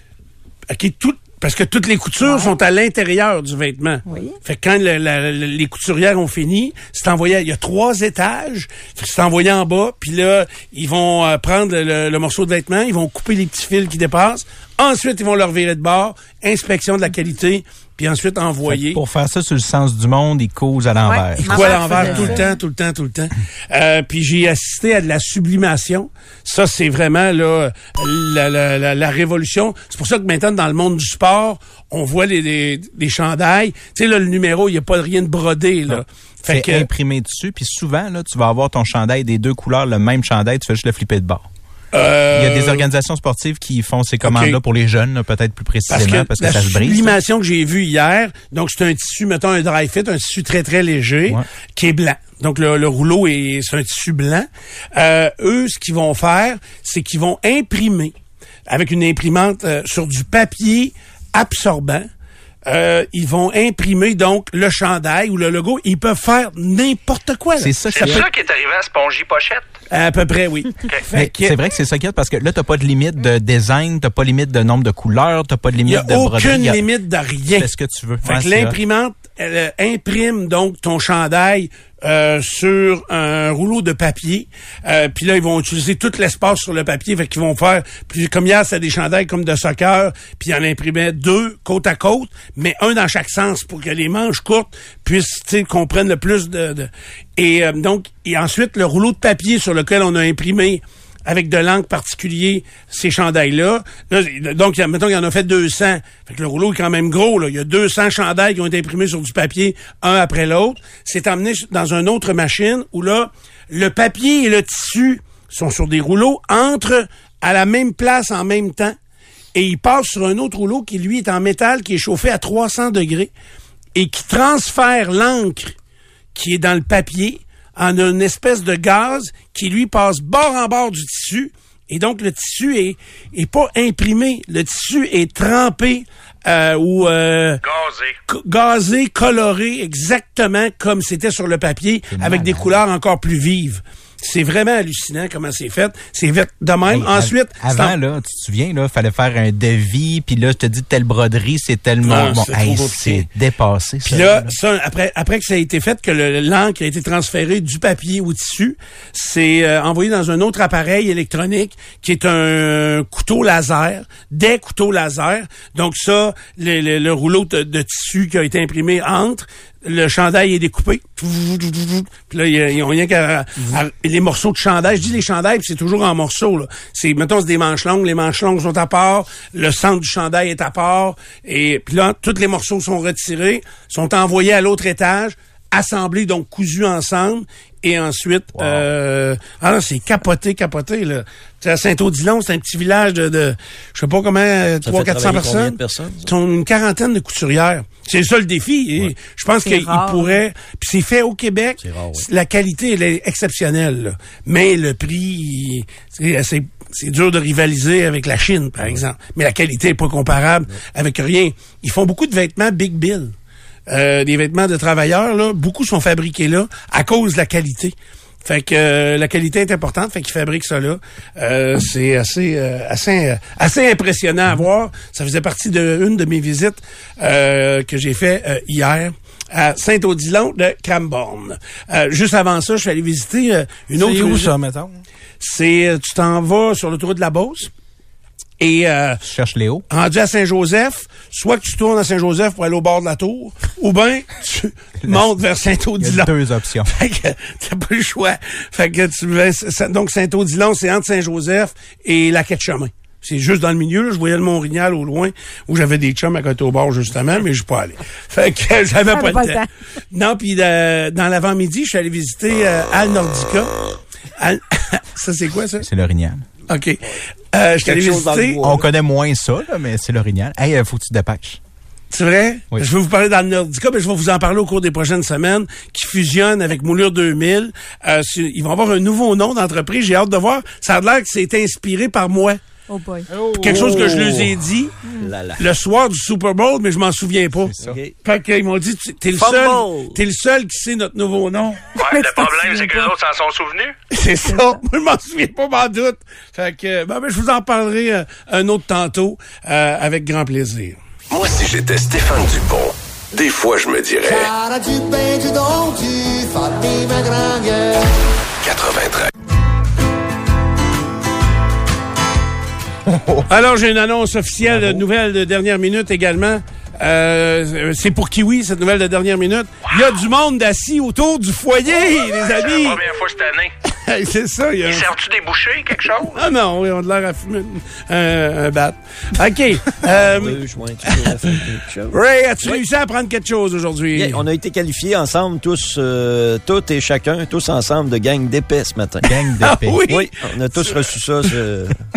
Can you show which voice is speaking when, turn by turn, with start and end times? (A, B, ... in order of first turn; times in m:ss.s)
0:00.7-0:19.0 A
0:02.2-0:02.5 B
0:04.1-0:04.4 B
0:18.6-0:22.4 C
0:21.0-0:22.5 B
0:21.4-0:36.9 A
0:35.9-0:41.5 C
0:41.9-0:42.8 A
0:42.3-0:47.2 C
0:44.2-0:44.6 A
0:45.9-0:58.1 A
0:58.7-1:02.1 A
1:02.7-1:08.2 A
1:07.6-1:08.3 C
1:07.9-1:09.7 D
1:09.9-1:11.6 A
1:11.1-1:16.9 C
1:15.9-1:17.7 A
1:17.5-1:18.8 C
1:18.2-1:59.0 A
1:59.5-2:03.3 A
2:04.0-2:05.8 A
2:06.4-2:17.6 A
2:17.6-2:18.2 D
2:18.3-2:28.0 A
2:22.1-2:22.8 C
2:26.9-2:34.6 C
2:32.0-2:33.3 A
2:34.0-3:33.3 A
3:14.8-3:16.3 E
3:19.6-3:20.4 B
3:21.8-3:22.3 E
3:33.9-3:54.5 A
3:54.0-3:55.0 F
3:55.4-3:57.7 A
3:58.6-3:59.2 A
3:59.2-3:59.9 C
3:59.9-4:06.3 A
4:05.0-4:05.4 C
4:06.0-4:06.9 C
4:06.9-4:19.6 A
4:19.1-4:19.7 B
4:20.1-4:23.8 A
4:24.4-4:25.9 A
4:25.8-4:26.5 C
4:26.7-4:28.8 A
4:27.8-4:28.8 E
4:28.6-4:31.6 C
4:32.1-4:42.6 A
4:42.9-4:43.3 B
4:43.3-4:44.2 F
4:43.6-4:45.0 A
4:43.7-4:44.4 E
4:45.2-4:45.6 E
4:45.6-4:52.0 A
4:47.7-4:48.0 C
4:47.8-4:48.2 E
4:49.3-4:50.2 E
4:52.0-4:54.0 D
4:52.0-4:53.1 B
4:54.1-5:01.0 A
4:54.5-4:54.8 B
5:01.3-5:04.5 G
5:04.2-5:08.2 H
5:08.6-5:09.3 G
5:13.5-5:23.0 A
5:22.4-5:23.7 D
5:23.8-5:25.1 A
5:24.8-5:26.4 D
5:26.3-5:31.5 A
5:30.0-5:32.8 E
5:32.1-5:34.4 A
5:34.1-5:39.3 E
5:39.2-5:40.0 C
5:39.6-5:41.6 A
5:40.1-5:42.0 E